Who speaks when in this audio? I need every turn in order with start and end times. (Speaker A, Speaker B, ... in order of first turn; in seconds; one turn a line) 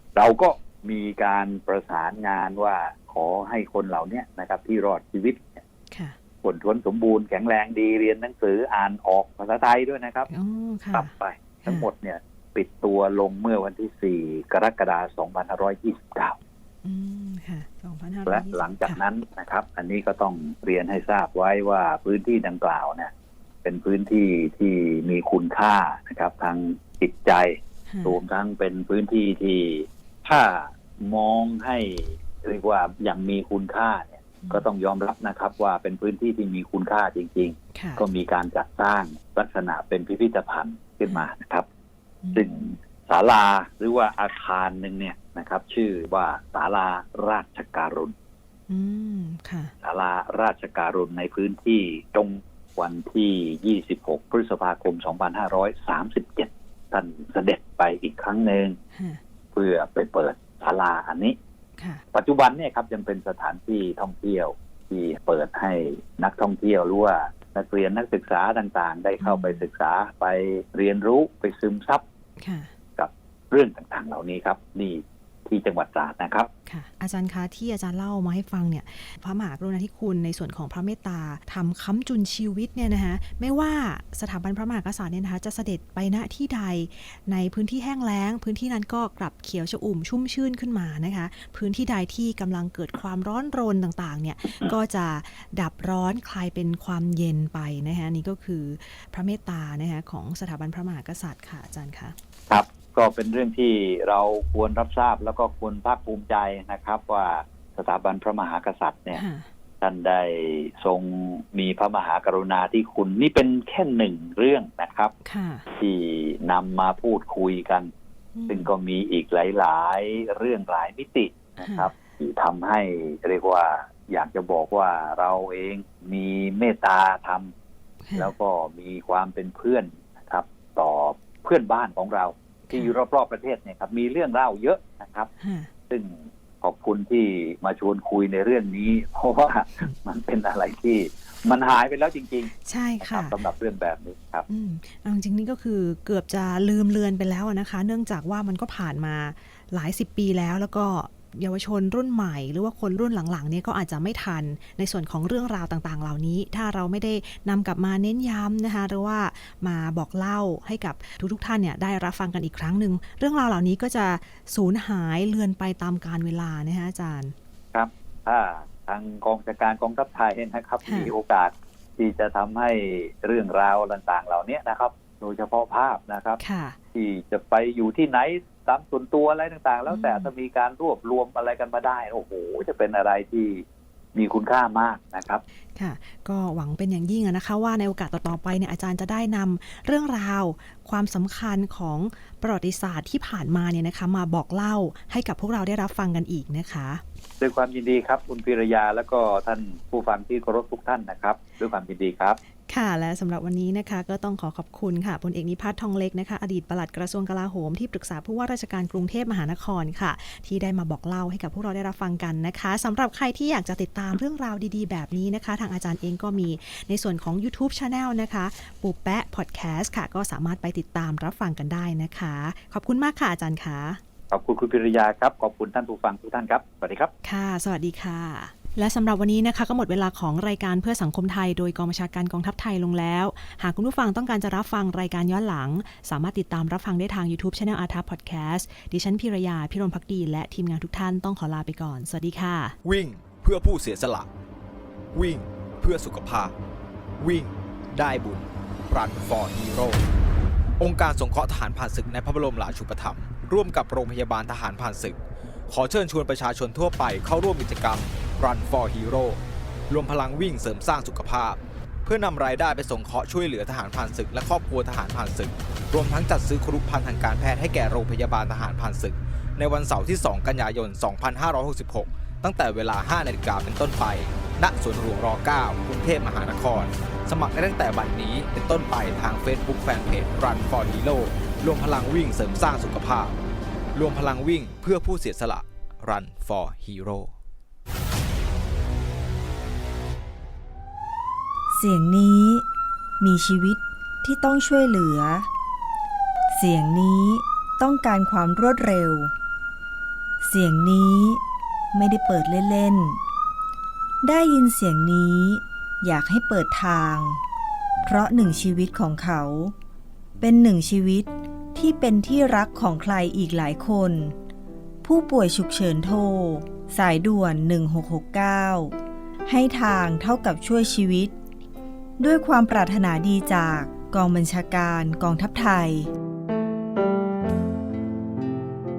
Speaker A: 0.1-5.6
Speaker A: 6.4-10.3
Speaker B: 10.3-11.1
Speaker A: 10.9-16.4
Speaker B: 16.8-19.0
Speaker A: 18.3-23.1
Speaker A: 23.6-41.7
Speaker B: 27.9-28.2
Speaker B: 34.4-34.7
Speaker B: 37.7-38.0
Speaker B: 42.2-42.5
Speaker A: 42.4-48.1
Speaker B: 48.7-49.7
Speaker A: 49.8-58.8
Speaker B: 58.9-59.2
Speaker A: 59.5-61.4
Speaker B: 61.8-62.0
Speaker A: 62.1-72.0
Speaker B: 69.2-69.7
Speaker B: 72.4-72.7
Speaker A: 73.0-76.5
Speaker B: 76.7-102.2
Speaker A: 102.5-109.2
Speaker B: 109.2-109.5
Speaker A: 109.8-115.1
Speaker B: 115.2-115.7
Speaker A: 115.8-117.9
Speaker B: 118.4-118.7
Speaker A: 118.5-127.5
Speaker B: 121.6-121.9
Speaker B: 128.1-128.3
Speaker A: 128.2-135.3
Speaker B: 132.7-133.0
Speaker B: 135.4-135.7
Speaker A: 135.9-144.5
Speaker B: 142.7-143.4
Speaker B: 144.5-167.3
Speaker A: 167.7-176.4
Speaker B: 170.8-171.1
Speaker B: 176.4-176.8
Speaker A: 176.9-185.4
Speaker B: 179.9-180.3
Speaker B: 185.8-197.0
Speaker A: 197.4-202.4
Speaker B: 202.7-224.0
Speaker A: 224.3-227.1
Speaker B: 227.2-242.8
Speaker C: 242.8-244.3
Speaker C: 245.1-246.5
Speaker C: 247.2-250.0
Speaker C: 250.8-255.2
Speaker C: 255.7-259.4
Speaker C: 259.9-283.4
Speaker C: 283.9-287.3
Speaker D: 291.7-292.6
Speaker D: 293.2-295.5
Speaker D: 296.5-299.3
Speaker D: 300.4-301.4
Speaker D: 301.9-303.2
Speaker D: 304.2-307.4
Speaker D: 308.1-309.8
Speaker D: 310.4-314.4
Speaker D: 315.0-321.4
Speaker D: 322.2-326.1